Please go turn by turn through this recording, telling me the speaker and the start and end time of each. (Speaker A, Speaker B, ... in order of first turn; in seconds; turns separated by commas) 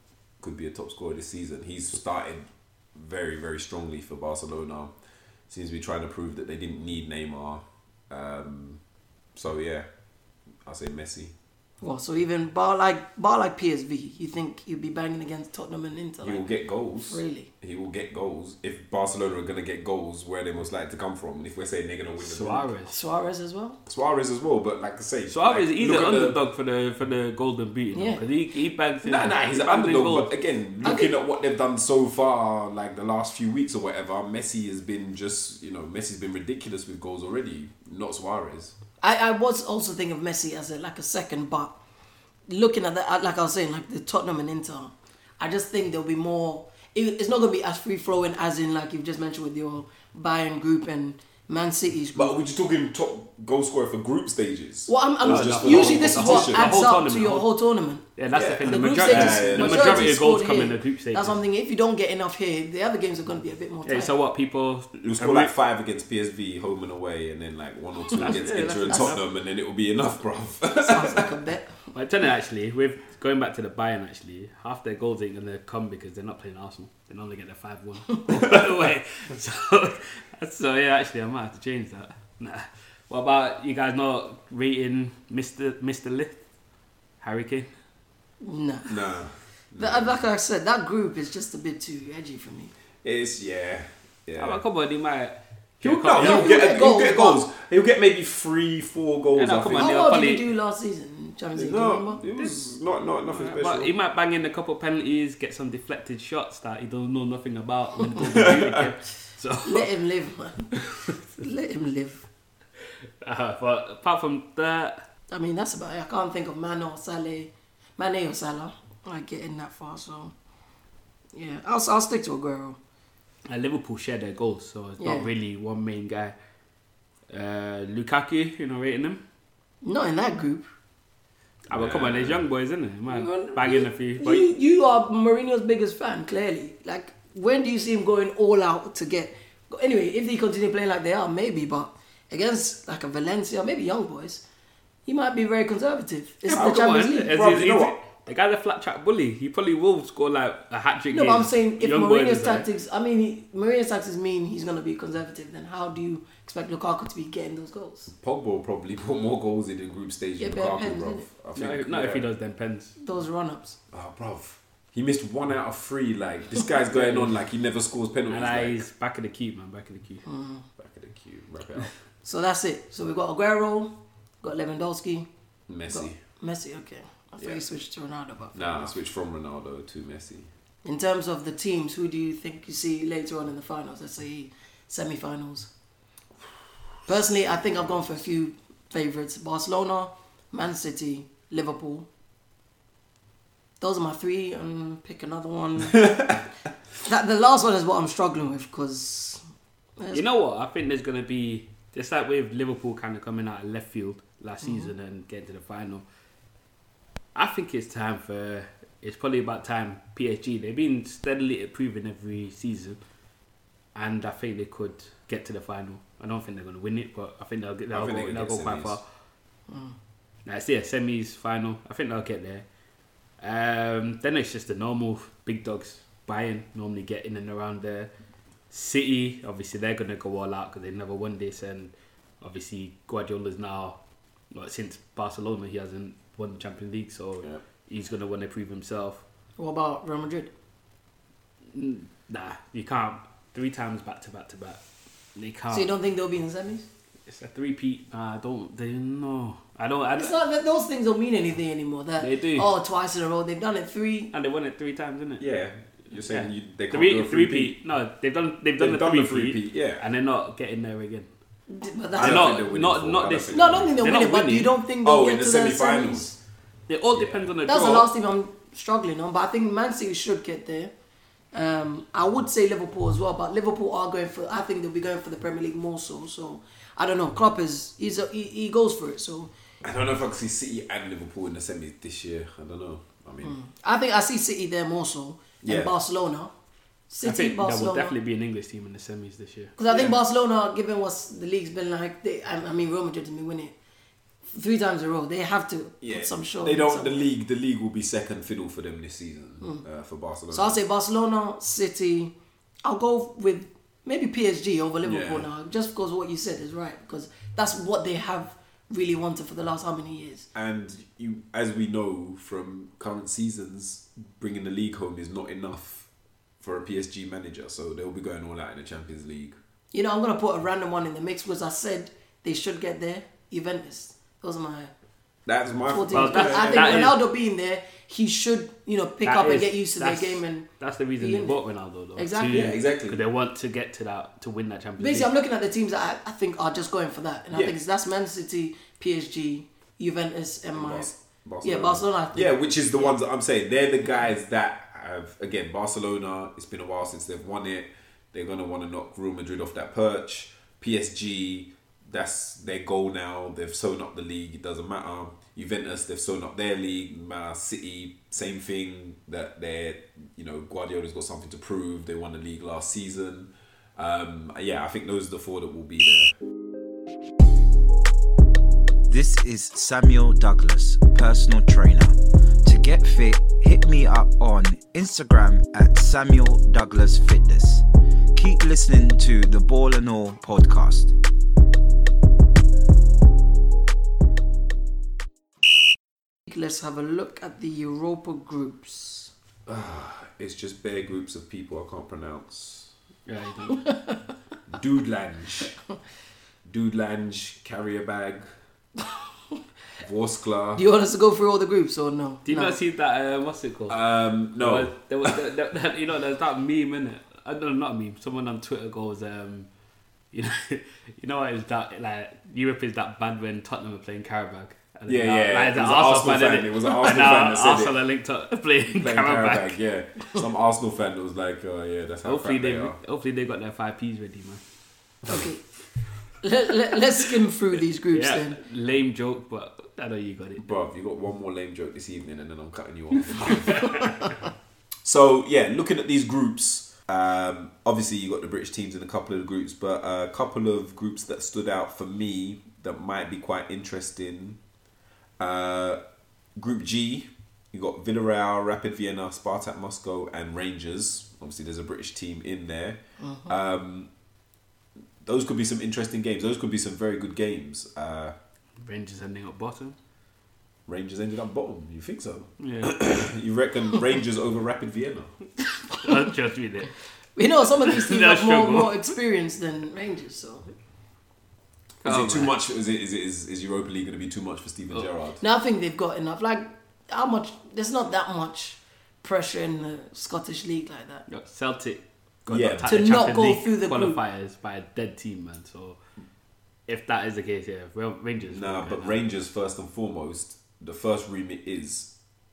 Speaker A: 0.4-4.9, Speaker A: 5.5-8.8, Speaker A: 9.3-9.9, Speaker A: 10.6-11.3, Speaker B: 11.8-16.4, Speaker A: 16.2-22.7, Speaker B: 17.0-17.5, Speaker C: 22.2-22.9, Speaker B: 22.9-23.8, Speaker A: 23.9-26.4, Speaker C: 25.3-30.3, Speaker B: 27.9-28.2, Speaker A: 29.0-38.7, Speaker B: 30.8-31.1, Speaker B: 39.0-41.8, Speaker B: 42.5-52.3, Speaker A: 52.1-57.0, Speaker B: 54.9-58.1, Speaker C: 55.2-57.5, Speaker C: 58.2-61.4, Speaker A: 58.3-60.2, Speaker B: 58.6-64.1, Speaker C: 63.8-65.5, Speaker A: 65.0-71.3, Speaker C: 68.1-69.2, Speaker B: 68.9-69.1, Speaker B: 70.8-71.8, Speaker C: 71.9-86.4, Speaker A: 78.3-78.9, Speaker C: 87.2-87.7, Speaker B: 88.4-88.9, Speaker A: 88.9-90.2, Speaker B: 89.8-92.7, Speaker A: 93.0-94.6, Speaker C: 94.4-96.7, Speaker A: 95.8-100.0, Speaker B: 96.2-97.4, Speaker C: 99.3-100.4, Speaker B: 99.8-102.2, Speaker A: 101.5-103.9, Speaker C: 103.3-109.9, Speaker A: 108.2-108.8, Speaker B: 109.6-112.2, Speaker C: 113.2-115.0, Speaker B: 115.3-120.3, Speaker B: 121.3-122.8, Speaker C: 123.5-126.3, Speaker B: 125.0-125.3, Speaker C: 127.3-129.2, Speaker B: 129.8-130.7, Speaker C: 131.7-134.5, Speaker A: 131.7-132.4, Speaker B: 133.1-144.4, Speaker B: 145.1-147.4, Speaker C: 146.5-152.7, Speaker A: 146.5-147.9, Speaker B: 151.1-158.1, Speaker A: 158.1-162.3, Speaker B: 160.4-161.3, Speaker C: 161.5-162.9, Speaker B: 163.0-163.8, Speaker A: 163.9-168.8, Speaker C: 166.9-167.4, Speaker C: 168.3-170.2, Speaker B: 170.2-170.6, Speaker A: 170.8-171.9, Speaker B: 172.2-175.3, Speaker A: 175.7-176.2, Speaker B: 175.9-178.9, Speaker A: 178.5-180.5, Speaker B: 180.8-185.7, Speaker B: 187.1-192.1, Speaker B: 193.8-196.4, Speaker A: 195.9-196.3, Speaker B: 197.0-199.4, Speaker B: 200.0-200.2, Speaker C: 200.1-206.0, Speaker B: 204.6-204.9, Speaker C: 207.3-213.0, Speaker C: 213.9-219.0, Speaker A: 217.9-219.0, Speaker B: 219.7-219.9, Speaker C: 220.4-222.7, Speaker C: 223.4-228.1, Speaker C: 228.7-234.0, Speaker C: 234.5-239.2, Speaker B: 239.6-240.5, Speaker C: 241.7-244.8, Speaker C: 245.3-245.9, Speaker B: 245.7-246.9, Speaker C: 247.3-250.4, Speaker B: 250.2-254.3, Speaker C: 252.2-252.7, Speaker C: 254.3-255.4, Speaker A: 255.4-257.8, Speaker C: 256.2-261.3, Speaker A: 258.8-260.0, Speaker B: 261.7-262.5, Speaker A: 262.1-264.0, Speaker C: 262.2-264.7, Speaker B: 263.5-266.4, Speaker A: 265.0-266.3, Speaker C: 266.9-268.1, Speaker A: 267.1-267.5, Speaker B: 267.6-270.9, Speaker B: 271.5-279.5, Speaker A: 279.8-283.6, Speaker B: 283.4-286.5, Speaker A: 285.6-285.9, Speaker B: 287.1-288.1, Speaker C: 287.2-289.7, Speaker B: 289.8-293.7, Speaker A: 289.9-290.2, Speaker B: 294.4-297.2, Speaker A: 296.0-300.8, Speaker B: 300.5-310.5, Speaker A: 305.0-305.5, Speaker A: 310.5-316.1, Speaker A: 316.6-319.6, Speaker B: 319.9-324.9, Speaker A: 325.4-327.1, Speaker B: 325.9-330.7, Speaker C: 326.1-327.2, Speaker C: 329.2-335.3, Speaker B: 331.2-331.6, Speaker B: 332.1-332.7, Speaker A: 332.5-333.2, Speaker B: 335.0-342.6, Speaker A: 340.7-366.4, Speaker D: 369.1-377.8, Speaker D: 378.3-381.1, Speaker B: 386.5-389.3, Speaker A: 389.6-392.9, Speaker C: 393.3-393.8, Speaker B: 393.7-394.2, Speaker A: 394.7-395.8, Speaker A: 396.6-398.5, Speaker A: 400.0-400.8, Speaker B: 400.8-402.8, Speaker C: 402.4-404.0, Speaker A: 403.9-405.4, Speaker C: 404.6-409.7, Speaker C: 410.3-419.8, Speaker A: 415.1-418.0, Speaker A: 418.9-423.0, Speaker C: 422.2-424.6, Speaker B: 425.3-425.6, Speaker B: 426.4-428.6, Speaker C: 428.1-430.7, Speaker A: 430.6-434.1, Speaker A: 435.0-444.6, Speaker A: 445.4-446.0, Speaker A: 446.6-454.1, Speaker B: 453.2-453.5, Speaker A: 455.2-458.3, Speaker C: 458.8-460.0, Speaker A: 460.9-465.4, Speaker C: 462.6-463.0, Speaker C: 465.9-466.9, Speaker B: 467.4-470.7, Speaker C: 467.8-469.1, Speaker C: 472.0-472.6, Speaker A: 472.0-475.4, Speaker B: 475.4-481.2, Speaker C: 481.3-486.0, Speaker A: 482.5-483.2, Speaker B: 482.9-484.2, Speaker C: 486.9-489.2, Speaker A: 488.4-492.1